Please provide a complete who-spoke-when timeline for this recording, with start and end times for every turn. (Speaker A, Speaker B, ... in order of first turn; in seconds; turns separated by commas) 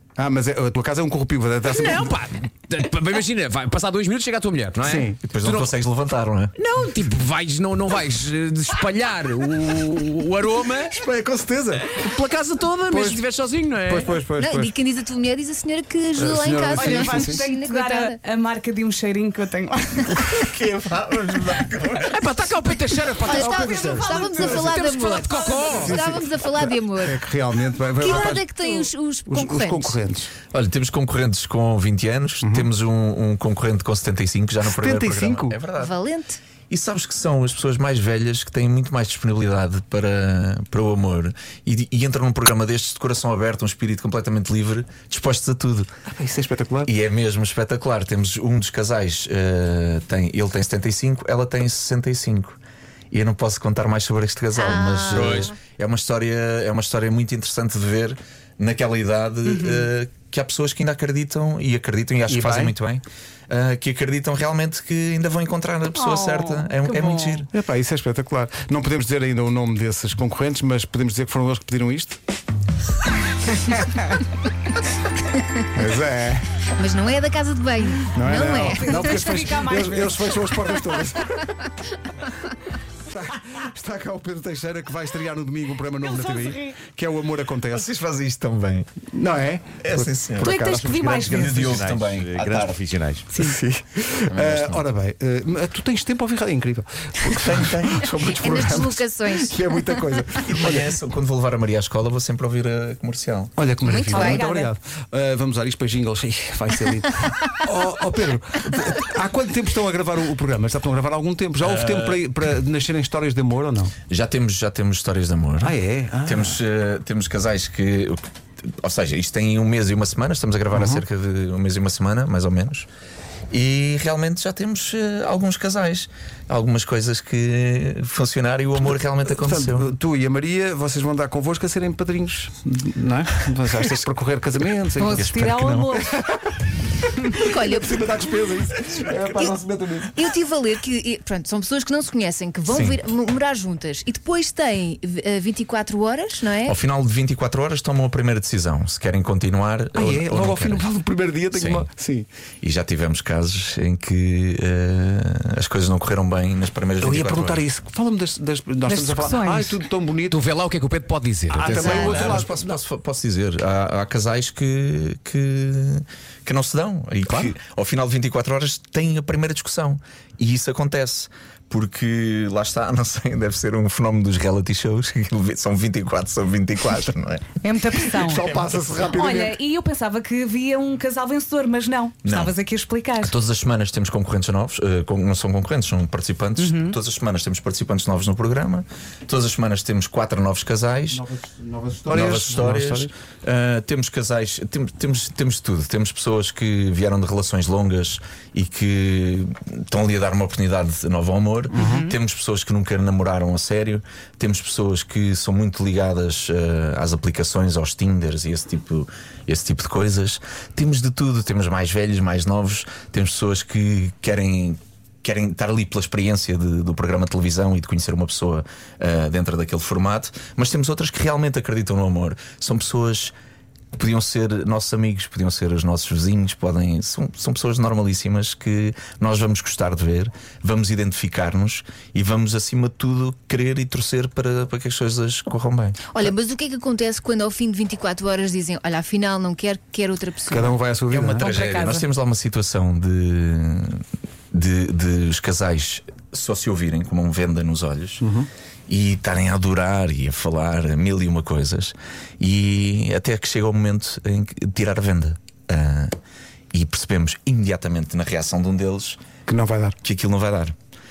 Speaker A: 0.2-2.1, Speaker B: 1.7-5.8, Speaker A: 4.8-5.2, Speaker C: 5.2-6.5, Speaker B: 6.6-10.9, Speaker A: 10.9-11.9, Speaker B: 11.9-14.1, Speaker A: 12.9-13.2, Speaker A: 13.8-14.7, Speaker D: 14.4-18.2, Speaker A: 16.2-17.4, Speaker E: 16.7-20.3, Speaker C: 20.2-22.3, Speaker B: 22.1-23.5, Speaker D: 23.2-27.2, Speaker A: 23.3-25.0, Speaker E: 23.5-25.6, Speaker B: 24.9-26.0, Speaker A: 25.6-30.3, Speaker D: 28.0-30.0, Speaker C: 30.5-36.0, Speaker A: 32.4-32.7, Speaker A: 34.7-35.6, Speaker D: 35.8-36.4, Speaker C: 36.7-45.9, Speaker A: 46.1-46.9, Speaker C: 46.9-52.6, Speaker C: 53.1-67.5, Speaker D: 54.6-55.6, Speaker B: 55.1-55.5, Speaker E: 59.5-59.9, Speaker A: 62.3-62.7, Speaker E: 65.9-67.4, Speaker A: 67.5-72.2, Speaker A: 75.7-76.5, Speaker D: 76.8-79.5, Speaker A: 78.1-81.5, Speaker E: 78.7-80.3, Speaker A: 83.0-87.9, Speaker E: 86.0-86.8, Speaker C: 87.7-88.9, Speaker A: 89.1-90.1, Speaker C: 89.8-92.8, Speaker F: 90.4-93.3, Speaker E: 90.4-91.7, Speaker A: 93.4-101.0, Speaker C: 94.3-94.8, Speaker C: 97.2-98.5, Speaker D: 98.3-99.8, Speaker C: 100.4-103.5, Speaker A: 103.6-114.0, Speaker D: 103.8-104.4, Speaker E: 104.1-104.7, Speaker C: 111.6-112.2, Speaker C: 114.1-122.9, Speaker A: 115.6-116.6, Speaker A: 120.7-121.0, Speaker C: 123.5-129.9, Speaker A: 129.3-135.3, Speaker C: 135.0-136.0, Speaker E: 135.1-136.0, Speaker A: 135.9-140.2, Speaker D: 137.4-138.1, Speaker D: 140.1-146.8, Speaker C: 142.7-143.0, Speaker C: 146.7-150.8, Speaker A: 150.0-152.3, Speaker C: 151.5-151.9, Speaker C: 152.6-157.7, Speaker A: 157.0-160.4, Speaker E: 158.8-159.8, Speaker B: 160.3-161.9, Speaker A: 161.5-162.6, Speaker C: 161.6-177.5, Speaker D: 161.8-162.3, Speaker E: 177.6-178.4, Speaker A: 178.1-179.6, Speaker E: 179.1-183.3, Speaker C: 182.2-182.5, Speaker C: 183.2-191.2, Speaker E: 186.6-187.0, Speaker A: 191.1-193.1, Speaker C: 192.1-223.3, Speaker A: 201.7-202.1, Speaker C: 223.9-236.0, Speaker D: 236.1-240.8, Speaker A: 240.5-241.6, Speaker C: 241.1-248.2, Speaker E: 241.4-242.1, Speaker A: 248.2-248.5, Speaker C: 248.9-256.2, Speaker C: 256.7-259.2, Speaker A: 259.5-260.0, Speaker C: 260.0-260.7